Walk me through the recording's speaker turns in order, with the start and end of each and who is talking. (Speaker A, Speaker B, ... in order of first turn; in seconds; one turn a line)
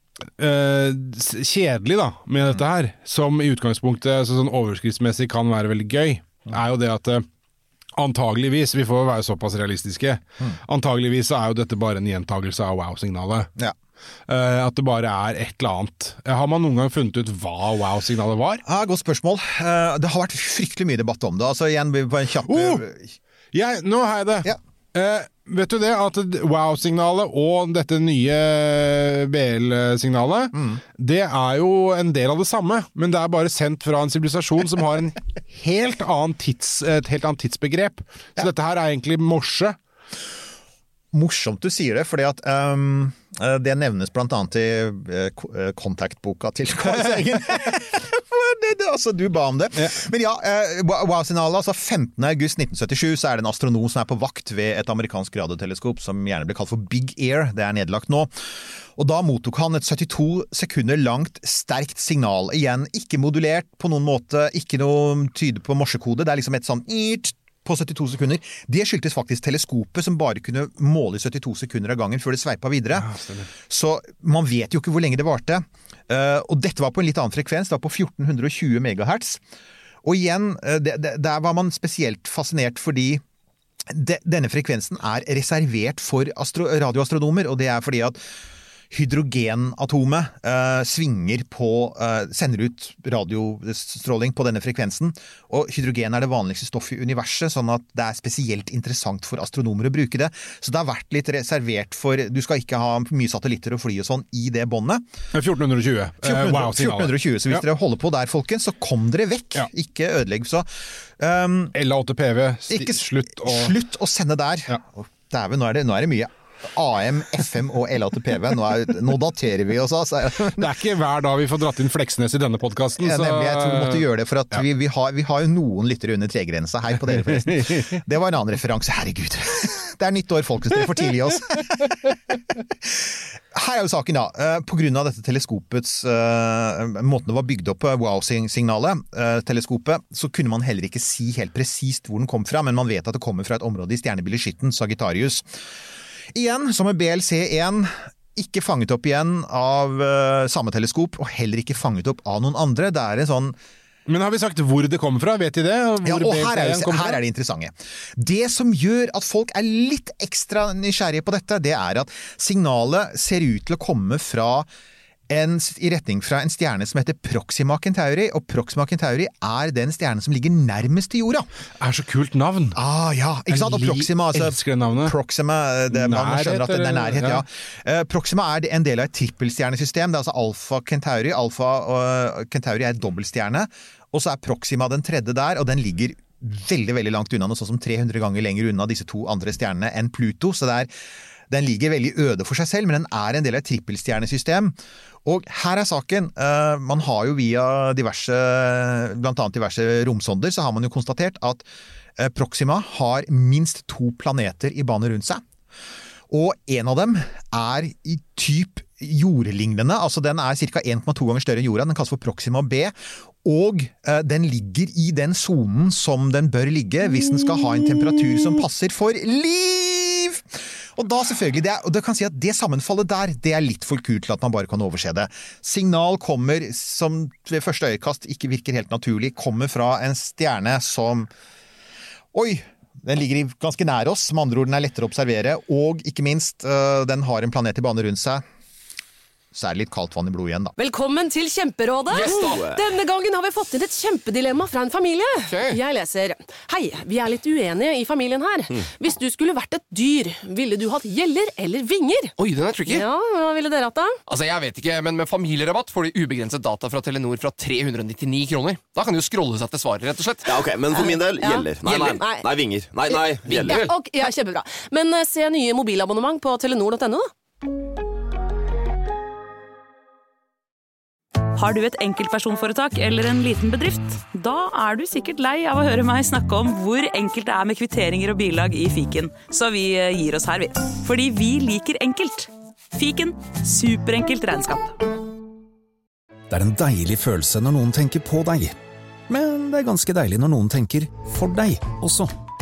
Speaker A: 0.4-7.2
Speaker A: 8.0-13.5
Speaker A: 14.3-18.6
Speaker B: 18.6-23.1
Speaker A: 22.4-22.8
Speaker A: 23.5-39.8
Speaker B: 30.5-30.8
Speaker B: 41.1-73.1
Speaker A: 72.9-73.5
Speaker B: 73.6-79.4
Speaker B: 80.0-83.2
Speaker B: 83.9-88.2
Speaker B: 88.9-105.0
Speaker A: 105.3-107.6
Speaker B: 106.2-111.7
Speaker A: 111.7-113.8
Speaker B: 112.7-120.7
Speaker A: 120.5-124.6
Speaker B: 123.0-145.5
Speaker A: 127.2-128.0
Speaker B: 146.3-153.6
Speaker A: 154.1-157.2
Speaker B: 156.0-164.7
Speaker B: 165.3-171.5
Speaker A: 171.8-172.8
Speaker B: 172.7-190.9
Speaker A: 173.5-175.1
Speaker A: 175.9-177.4
Speaker B: 191.5-201.6
Speaker B: 202.2-205.4
Speaker B: 206.3-231.3
Speaker B: 232.3-238.4
Speaker B: 239.5-240.7
Speaker C: 240.8-252.3
Speaker D: 242.1-242.8
Speaker D: 245.5-245.8
Speaker D: 252.4-253.1
Speaker C: 252.8-254.2
Speaker D: 254.3-260.6
Speaker E: 260.4-263.9
Speaker C: 260.9-262.5
Speaker D: 261.9-262.1
Speaker C: 263.1-267.3
Speaker D: 263.7-263.9
Speaker F: 271.5-285.0
Speaker G: 286.5-288.8
Speaker G: 289.3-292.3